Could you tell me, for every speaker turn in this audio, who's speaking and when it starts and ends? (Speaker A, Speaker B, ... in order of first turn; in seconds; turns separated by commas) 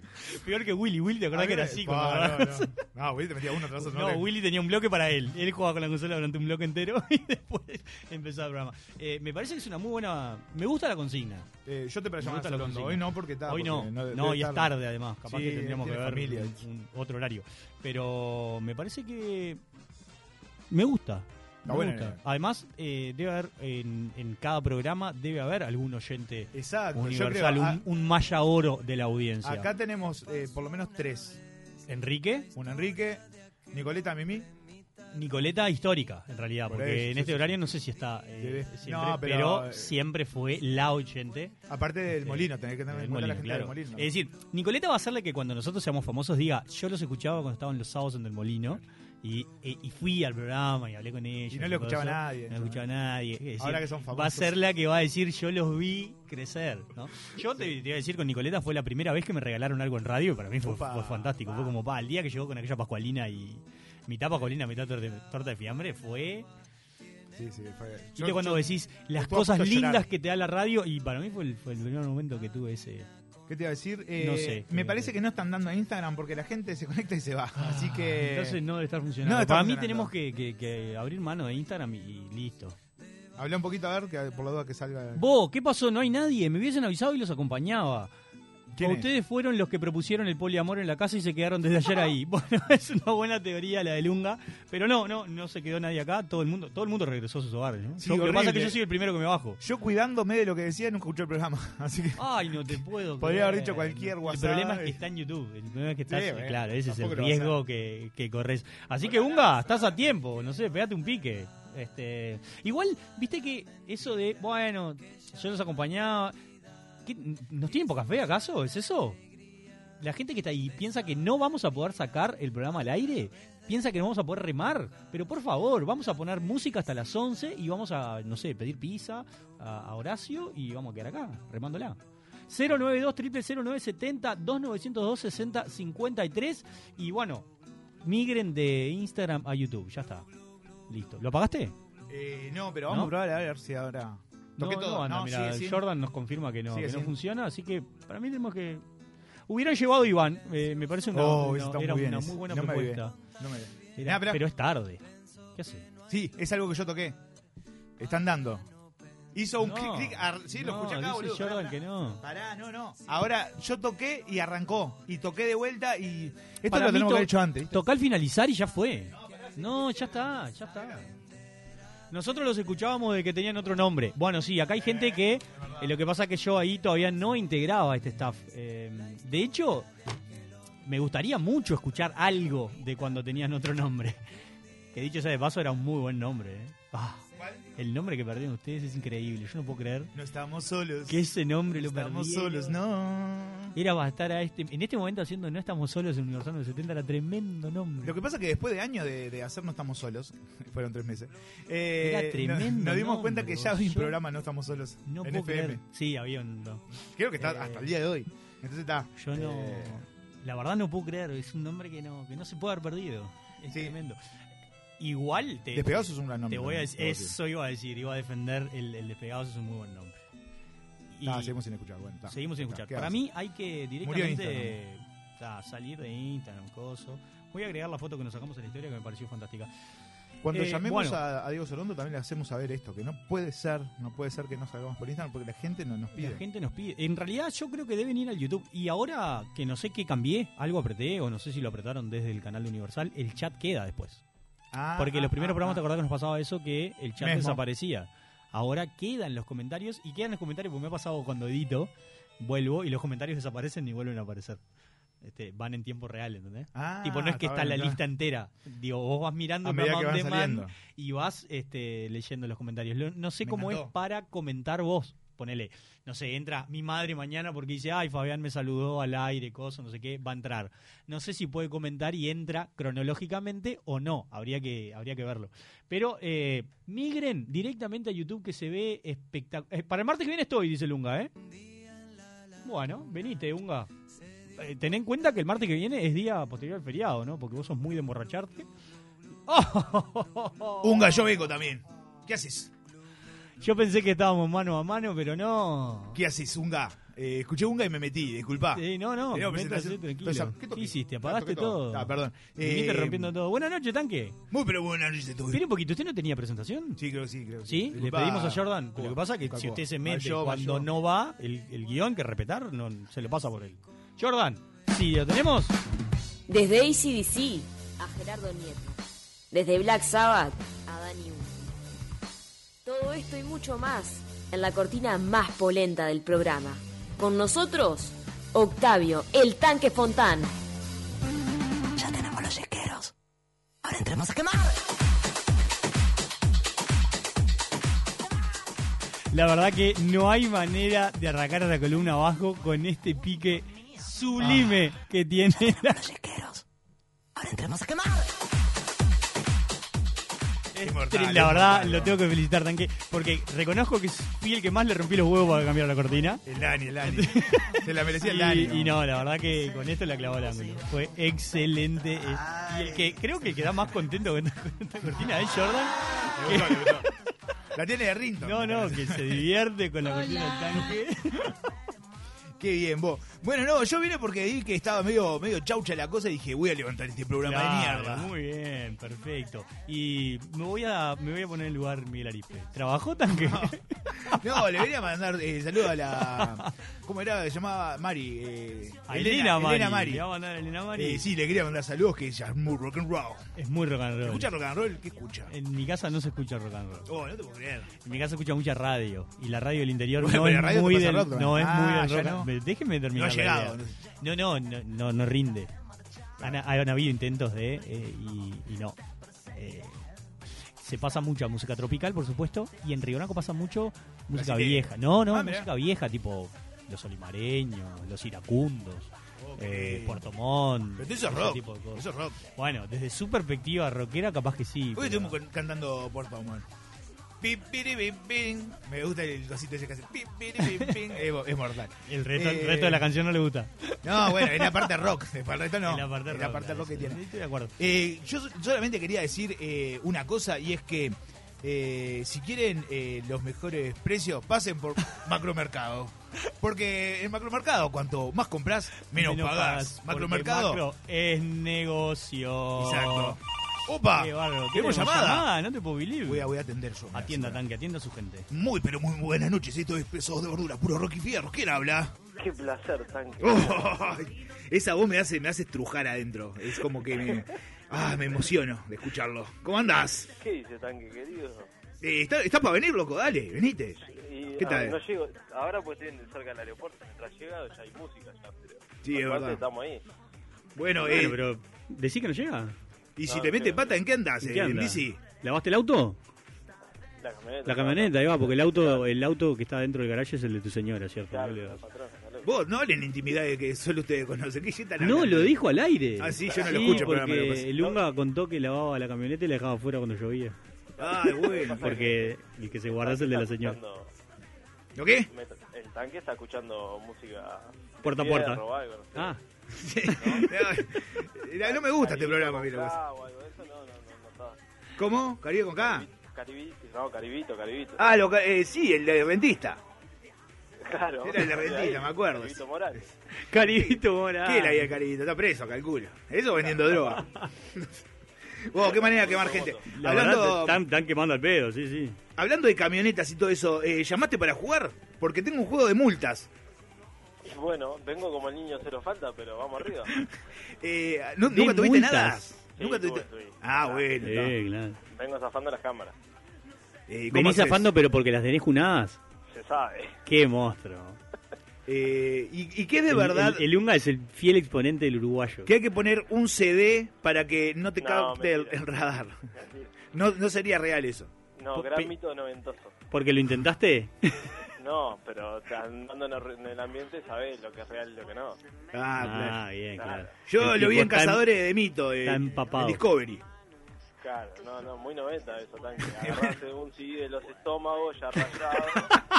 Speaker A: 0.2-2.7, Speaker B: 1.3-4.3, Speaker A: 3.8-11.5, Speaker B: 11.6-16.6, Speaker A: 12.2-19.6, Speaker A: 20.7-29.7, Speaker B: 21.6-22.2, Speaker B: 26.5-27.8, Speaker B: 29.4-31.4, Speaker A: 31.9-32.5, Speaker B: 32.5-34.5, Speaker A: 35.1-41.5, Speaker B: 36.7-37.6, Speaker B: 38.4-39.9, Speaker B: 41.7-44.1, Speaker A: 42.1-66.5, Speaker B: 51.5-52.8, Speaker B: 53.6-54.6, Speaker B: 57.4-57.7, Speaker B: 60.6-61.8, Speaker B: 67.3-70.1, Speaker A: 68.2-73.1, Speaker B: 73.5-78.6, Speaker A: 74.2-75.1, Speaker A: 77.6-82.7, Speaker B: 79.2-80.1, Speaker B: 83.4-85.2, Speaker A: 85.1-88.1, Speaker B: 88.7-89.1, Speaker A: 88.8-99.6, Speaker B: 98.0-98.8, Speaker B: 99.6-105.0, Speaker A: 102.2-116.3, Speaker B: 106.1-107.6, Speaker B: 109.0-109.7, Speaker A: 117.0-119.2, Speaker A: 120.0-132.0, Speaker A: 132.5-137.5, Speaker A: 138.0-140.2, Speaker A: 140.9-141.7, Speaker B: 142.1-145.8, Speaker A: 144.6-148.8, Speaker B: 146.7-147.1, Speaker A: 149.5-153.2, Speaker B: 151.1-154.4, Speaker A: 154.0-155.0, Speaker A: 155.6-155.8, Speaker B: 156.1-157.2, Speaker B: 158.0-158.6, Speaker B: 159.3-167.8, Speaker A: 159.6-162.2, Speaker A: 166.7-171.1, Speaker B: 169.1-171.0, Speaker A: 172.1-179.9, Speaker B: 174.8-175.9, Speaker A: 180.8-184.2, Speaker A: 184.9-187.2, Speaker B: 187.4-187.7, Speaker A: 187.8-190.1, Speaker B: 190.1-193.8, Speaker A: 191.1-192.7, Speaker A: 193.8-198.1, Speaker B: 198.0-205.8, Speaker A: 202.0-204.2, Speaker A: 205.1-206.8, Speaker B: 206.9-210.0, Speaker A: 207.4-207.9, Speaker A: 209.2-214.2, Speaker B: 213.7-213.9, Speaker A: 215.0-220.2, Speaker B: 215.7-217.4, Speaker A: 221.1-221.5, Speaker B: 221.2-223.2, Speaker A: 222.3-229.7, Speaker B: 224.0-224.8, Speaker B: 230.4-236.4, Speaker A: 230.5-231.2, Speaker A: 236.1-244.2, Speaker B: 244.7-245.8, Speaker A: 245.0-254.6, Speaker B: 247.2-247.6, Speaker A: 255.2-281.3, Speaker B: 256.7-258.0, Speaker B: 259.6-260.7, Speaker B: 263.4-263.9, Speaker A: 282.6-283.9, Speaker A: 284.6-288.7, Speaker A: 289.5-291.1, Speaker B: 290.8-292.7, Speaker A: 293.6-296.2, Speaker B: 296.1-303.3, Speaker A: 298.7-304.4, Speaker B: 304.5-305.6, Speaker A: 305.5-307.0, Speaker B: 307.0-310.9, Speaker A: 307.6-315.7, Speaker C: 316.5-319.0, Speaker C: 319.5-321.7, Speaker C: 322.8-330.5, Speaker D: 331.9-333.1, Speaker D: 333.8-334.8, Speaker A: 339.3-346.0, Speaker B: 344.4-344.7, Speaker D: 345.5-346.6, Speaker D: 347.4-348.3, Speaker A: 350.7-356.4, Speaker B: 350.8-352.2, Speaker B: 356.4-359.0, Speaker A: 357.0-367.0, Speaker B: 362.2-363.2, Speaker B: 366.3-367.1, Speaker B: 367.7-369.4, Speaker A: 368.4-371.3, Speaker B: 372.6-378.3, Speaker A: 377.4-383.8, Speaker B: 383.3-383.8, Speaker B: 384.3-390.2, Speaker A: 389.1-391.2, Speaker B: 390.9-393.5, Speaker A: 393.6-394.5, Speaker B: 394.2-395.5, Speaker A: 395.5-397.1, Speaker B: 397.1-398.0, Speaker A: 398.0-405.7, Speaker B: 400.2-402.5, Speaker B: 403.1-403.9, Speaker A: 406.4-408.9, Speaker A: 409.5-410.0, Speaker A: 410.8-422.0, Speaker B: 414.3-415.7, Speaker B: 419.4-420.3, Speaker B: 421.0-422.4, Speaker A: 422.6-425.3, Speaker B: 424.9-426.6, Speaker B: 427.4-433.1, Speaker A: 430.6-430.9, Speaker A: 432.1-433.7, Speaker B: 434.0-437.2, Speaker A: 434.3-434.8, Speaker A: 435.9-437.7, Speaker B: 437.8-450.8, Speaker A: 449.1-453.3, Speaker B: 452.8-455.5, Speaker A: 454.2-456.5, Speaker B: 456.2-457.6, Speaker A: 457.1-458.4, Speaker B: 458.5-462.1, Speaker E: 462.4-463.9, Speaker B: 463.4-470.3, Speaker E: 470.4-471.7, Speaker B: 472.0-474.0, Speaker E: 474.0-480.0, Speaker B: 474.6-475.0, Speaker B: 479.0-479.6, Speaker B: 480.8-481.4, Speaker A: 481.1-482.7, Speaker B: 483.2-485.2, Speaker E: 483.2-484.0, Speaker A: 484.4-486.1, Speaker E: 487.2-489.1, Speaker A: 487.7-491.8, Speaker E: 491.3-492.5, Speaker B: 492.4-495.6, Speaker A: 495.0-500.5, Speaker B: 496.2-497.7, Speaker E: 496.5-497.0, Speaker E: 501.0-504.1, Speaker B: 501.0-502.0, Speaker A: 501.8-503.7, Speaker B: 504.9-505.3, Speaker E: 505.3-509.4, Speaker A: 508.0-508.6, Speaker B: 509.7-512.9, Speaker E: 510.1-510.5, Speaker E: 511.6-514.6, Speaker B: 515.0-516.0, Speaker E: 515.8-518.1, Speaker B: 518.0-519.8, Speaker E: 520.8-523.1, Speaker B: 521.2-522.6, Speaker A: 523.5-524.8, Speaker B: 523.6-527.2, Speaker B: 528.7-530.8, Speaker E: 528.8-529.9, Speaker A: 530.0-532.1, Speaker B: 532.4-536.5, Speaker E: 537.4-540.1, Speaker B: 540.8-544.5, Speaker A: 541.5-542.4, Speaker E: 542.8-544.1, Speaker A: 544.2-544.9, Speaker E: 545.1-546.1, Speaker B: 547.1-547.9, Speaker A: 547.3-549.1, Speaker E: 549.5-550.2, Speaker A: 550.3-551.1, Speaker B: 551.9-553.7, Speaker A: 553.1-555.7, Speaker B: 555.6-559.3, Speaker E: 558.0-558.8, Speaker E: 559.5-559.9, Speaker B: 560.1-561.3, Speaker E: 561.6-563.0, Speaker A: 563.1-564.1, Speaker E: 564.8-568.6, Speaker B: 568.9-569.6, Speaker A: 569.2-571.4, Speaker E: 570.0-570.3, Speaker B: 570.5-573.4, Speaker A: 572.3-572.9, Speaker E: 574.2-579.1, Speaker B: 576.2-576.5